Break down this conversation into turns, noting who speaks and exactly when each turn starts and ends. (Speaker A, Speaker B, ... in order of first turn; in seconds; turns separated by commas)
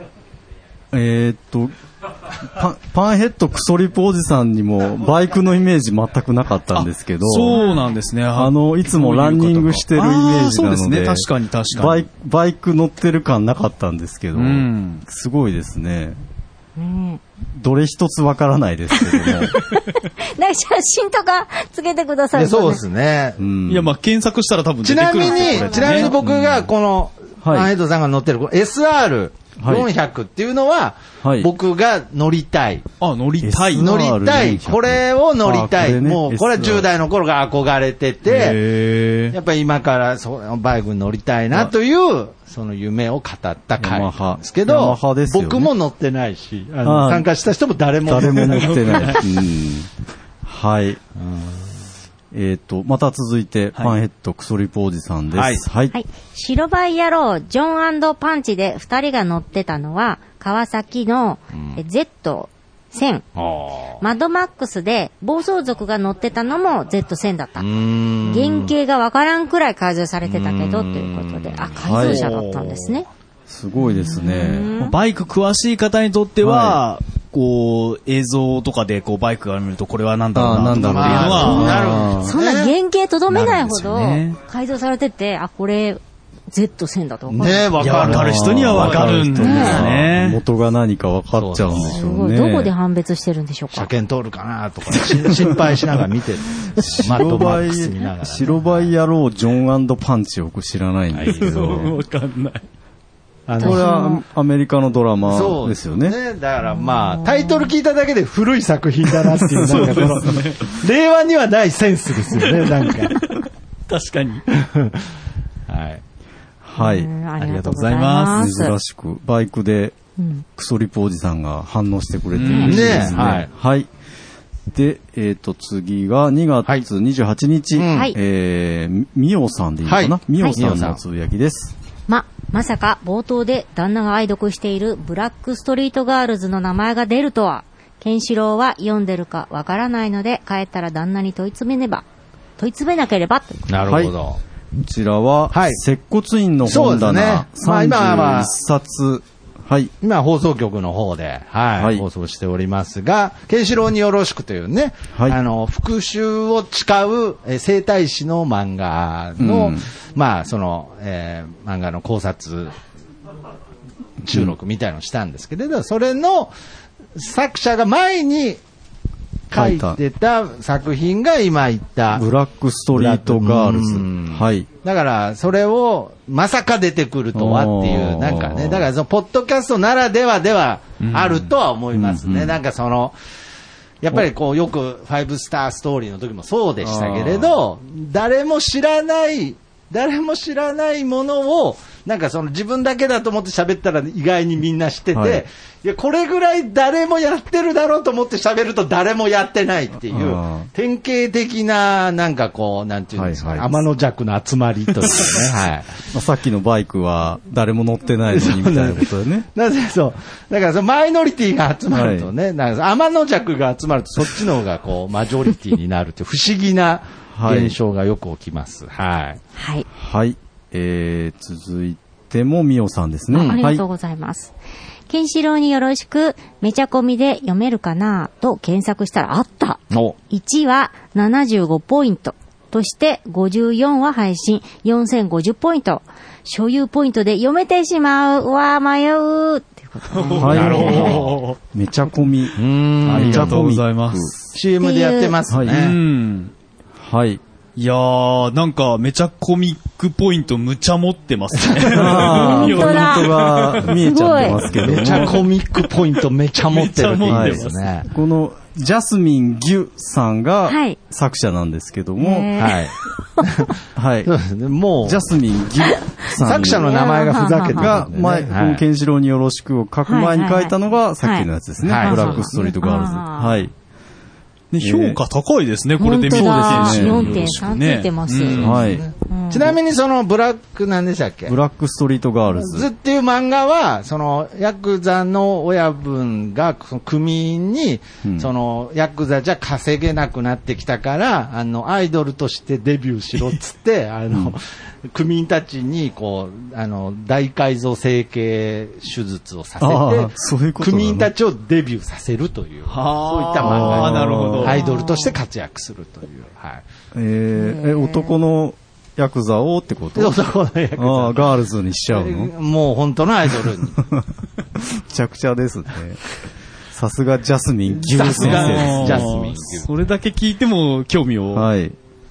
Speaker A: 0.9-1.7, Speaker A: 2.4-7.6, Speaker B: 6.7-12.0, Speaker C: 7.5-7.9, Speaker A: 8.3-16.2, Speaker B: 14.3-15.0, Speaker C: 16.8-17.2, Speaker A: 17.5-19.5, Speaker C: 18.9-22.8, Speaker D: 22.3-23.4, Speaker A: 23.4-23.9, Speaker B: 23.7-26.2, Speaker D: 24.8-32.9, Speaker C: 25.2-26.1, Speaker A: 26.2-26.6, Speaker A: 27.4-27.7, Speaker A: 29.6-29.9, Speaker A: 31.2-31.5, Speaker B: 33.0-33.9, Speaker A: 33.4-36.9, Speaker D: 33.8-38.6, Speaker B: 38.2-39.4, Speaker D: 39.3-49.1, Speaker A: 43.8-45.7, Speaker A: 46.8-47.3, Speaker A: 48.0-49.9, Speaker B: 48.4-49.2, Speaker A: 50.4-51.0, Speaker D: 51.2-51.5, Speaker A: 52.3-55.9, Speaker D: 55.3-55.6, Speaker C: 55.9-63.2, Speaker D: 63.4-64.0, Speaker C: 64.0-67.7, Speaker D: 67.6-68.7, Speaker C: 68.2-73.1, Speaker D: 70.2-71.8, Speaker A: 71.8-72.3, Speaker B: 71.9-72.8, Speaker A: 73.5-74.7, Speaker C: 73.8-74.9, Speaker B: 74.8-82.1, Speaker A: 76.4-76.8, Speaker A: 80.3-82.3, Speaker D: 80.7-82.7, Speaker C: 82.2-86.0, Speaker B: 83.3-84.4, Speaker C: 86.5-87.7, Speaker D: 87.3-90.0, Speaker B: 87.8-90.4, Speaker A: 87.9-92.7, Speaker C: 89.4-89.8, Speaker D: 91.4-92.0, Speaker C: 91.7-93.9, Speaker D: 93.7-98.9, Speaker A: 96.8-102.0, Speaker D: 101.1-101.5, Speaker B: 101.2-102.6, Speaker D: 103.5-103.9, Speaker C: 103.6-104.2, Speaker A: 103.6-106.2, Speaker D: 105.3-113.2, Speaker C: 106.7-107.7, Speaker B: 109.5-110.7, Speaker B: 112.3-114.4, Speaker D: 114.6-115.0, Speaker D: 115.7-116.0, Speaker A: 116.6-117.1, Speaker C: 116.8-118.7, Speaker B: 117.4-118.5, Speaker A: 118.2-120.0, Speaker C: 120.2-120.4, Speaker A: 120.5-123.9, Speaker B: 122.3-123.3, Speaker D: 122.6-123.5, Speaker A: 124.7-131.7, Speaker D: 127.7-128.1, Speaker D: 129.8-131.0, Speaker C: 132.1-142.0, Speaker C: 142.6-143.7, Speaker D: 143.7-144.4, Speaker A: 143.8-144.1, Speaker A: 144.8-149.9, Speaker D: 145.5-145.8, Speaker D: 146.6-148.5, Speaker D: 150.0-162.7, Speaker A: 151.8-152.0, Speaker A: 159.4-159.9, Speaker D: 164.2-166.5, Speaker A: 164.3-164.6, Speaker D: 167.1-168.6, Speaker D: 169.5-172.2, Speaker A: 169.5-170.0, Speaker A: 172.1-174.7, Speaker D: 172.9-183.2, Speaker A: 177.3-178.9, Speaker B: 181.0-181.5, Speaker A: 181.9-182.6, Speaker D: 184.0-205.9, Speaker A: 186.8-187.6, Speaker A: 195.1-195.4, Speaker A: 200.1-200.7, Speaker A: 203.1-203.8, Speaker A: 205.0-205.4, Speaker A: 206.1-209.4, Speaker D: 208.3-219.4, Speaker A: 211.9-212.3, Speaker A: 217.3-217.8, Speaker C: 219.6-219.8, Speaker A: 219.9-223.8, Speaker D: 223.3-223.6, Speaker C: 223.4-224.5, Speaker C: 225.1-241.2, Speaker D: 229.9-230.2, Speaker B: 240.1-241.6, Speaker A: 240.4-244.3, Speaker D: 240.5-241.4, Speaker D: 242.6-243.6, Speaker B: 243.0-244.6, Speaker D: 244.5-246.0, Speaker C: 244.8-245.4, Speaker A: 245.5-245.8, Speaker B: 245.7-246.5, Speaker A: 247.0-247.4, Speaker B: 247.8-257.9, Speaker D: 251.7-252.2, Speaker A: 251.9-255.4, Speaker C: 252.3-253.3, Speaker C: 253.9-254.6, Speaker D: 254.8-258.1, Speaker A: 257.3-262.6, Speaker C: 260.7-261.0, Speaker C: 262.2-263.4, Speaker D: 262.6-265.2, Speaker A: 263.9-264.3, Speaker A: 265.0-266.9, Speaker D: 266.4-268.8, Speaker C: 266.6-268.0, Speaker A: 267.7-273.7, Speaker C: 270.1-271.5, Speaker D: 271.8-272.4, Speaker C: 272.0-273.6, Speaker B: 274.7-278.9, Speaker A: 274.8-275.2, Speaker C: 276.0-278.6, Speaker A: 276.2-277.6, Speaker A: 278.5-279.1, Speaker D: 278.5-281.5, Speaker C: 279.3-279.8, Speaker A: 281.5-282.9, Speaker D: 282.5-306.8, Speaker A: 288.2-288.5, Speaker A: 294.3-294.6, Speaker A: 299.8-301.3, Speaker B: 302.9-304.9, Speaker A: 303.6-304.7, Speaker C: 304.7-305.4, Speaker A: 307.1-310.4, Speaker C: 307.5-308.4, Speaker D: 310.1-311.5, Speaker A: 310.9-312.5, Speaker D: 312.1-314.0, Speaker A: 313.6-316.2, Speaker A: 316.9-319.6, Speaker D: 317.9-320.1, Speaker B: 318.2-321.7, Speaker A: 321.5-321.9